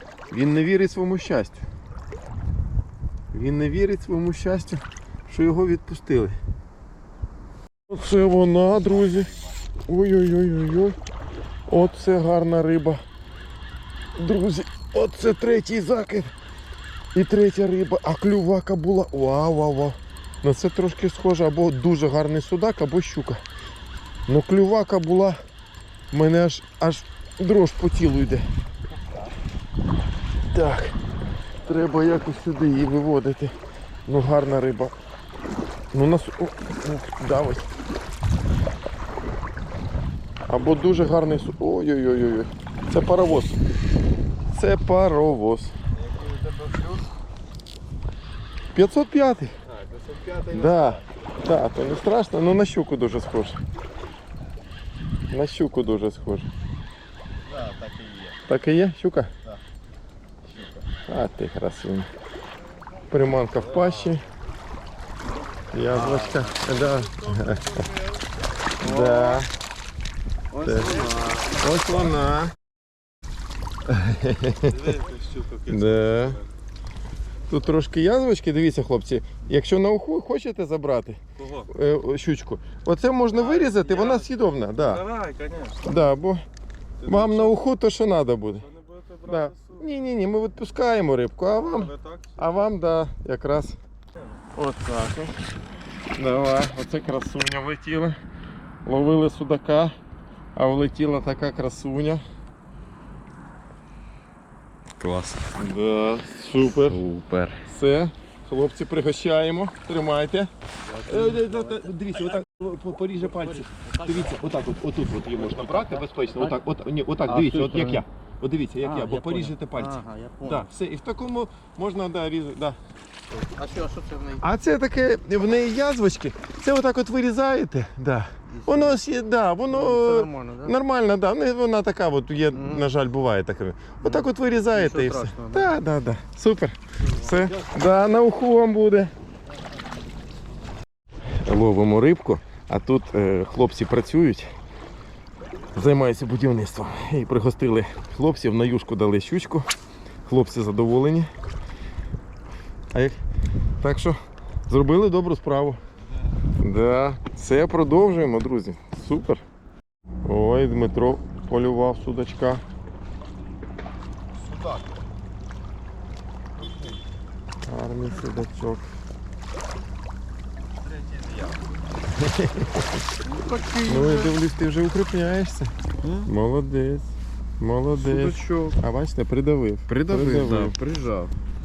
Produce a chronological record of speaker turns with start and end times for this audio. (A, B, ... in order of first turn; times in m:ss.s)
0:00.3-0:01.7 A
0:03.3-0:06.4 A
0:07.9-0:11.0 A
0:08.9-0:09.6 B
0:11.7-0:13.0 A
0:14.2-0:16.3 A
0:17.1-0:23.4 A
0:24.3-0:25.4 A
0:26.1-0:28.5 A
0:30.5-0:31.0 A
0:31.6-0:33.6 A
0:34.1-0:34.9 A
0:35.9-0:37.7 A
0:40.5-0:43.6 A
0:44.5-0:45.7 A
0:45.9-0:47.1 B
0:48.7-0:49.6 A
0:49.6-0:51.1 B
0:50.5-0:53.6 A
0:55.3-0:56.5 A
0:57.4-0:58.4 B
0:58.5-0:59.3 A
1:00.4-1:00.9 B
1:01.1-1:02.1 A
1:03.1-1:04.3 A
1:03.6-1:04.2 B
1:05.7-1:07.9 A
1:05.9-1:08.2 B
1:08.8-1:09.5 A
1:08.8-1:09.5 B
1:10.5-1:11.6 B
1:10.6-1:12.5 A
1:13.9-1:15.0 A
1:14.7-1:16.5 B
1:15.7-1:16.4 A
1:17.5-1:25.1 A
1:21.4-1:21.7 B
1:23.3-1:24.2 B
1:25.1-1:25.7 C
1:25.1-1:25.4 B
1:25.8-1:26.4 A
1:27.0-1:27.6 B
1:27.1-1:33.8 A
1:31.9-1:32.2 B
1:34.6-1:35.3 A
1:36.1-1:38.2 A
1:38.9-1:39.9 A
1:40.6-1:42.2 A
1:45.0-1:45.4 B
1:45.6-1:47.0 A
1:46.6-1:47.6 B
1:47.7-1:50.5 A
1:51.0-2:02.8 A
1:55.7-1:55.9 C
1:57.3-1:58.0 C
1:57.4-1:57.8 B
1:58.9-2:00.6 C
2:03.4-2:04.4 C
2:04.4-2:19.1 A
2:09.7-2:10.7 C
2:14.1-2:15.7 C
2:17.2-2:17.7 B
2:21.4-2:24.5 A
2:25.8-2:29.7 A
2:30.3-2:31.3 A
2:33.8-2:35.8 A
2:36.6-2:39.4 A
2:40.2-2:42.6 A
2:44.3-2:45.0 B
2:46.5-2:47.0 B
2:47.6-2:48.9 A
2:50.8-2:51.7 B
2:52.1-2:53.0 A
2:53.2-2:54.4 B
2:53.8-2:55.7 A
2:56.0-2:56.3 B
2:56.3-3:00.8 A
2:57.9-2:58.8 B
2:59.9-3:01.3 B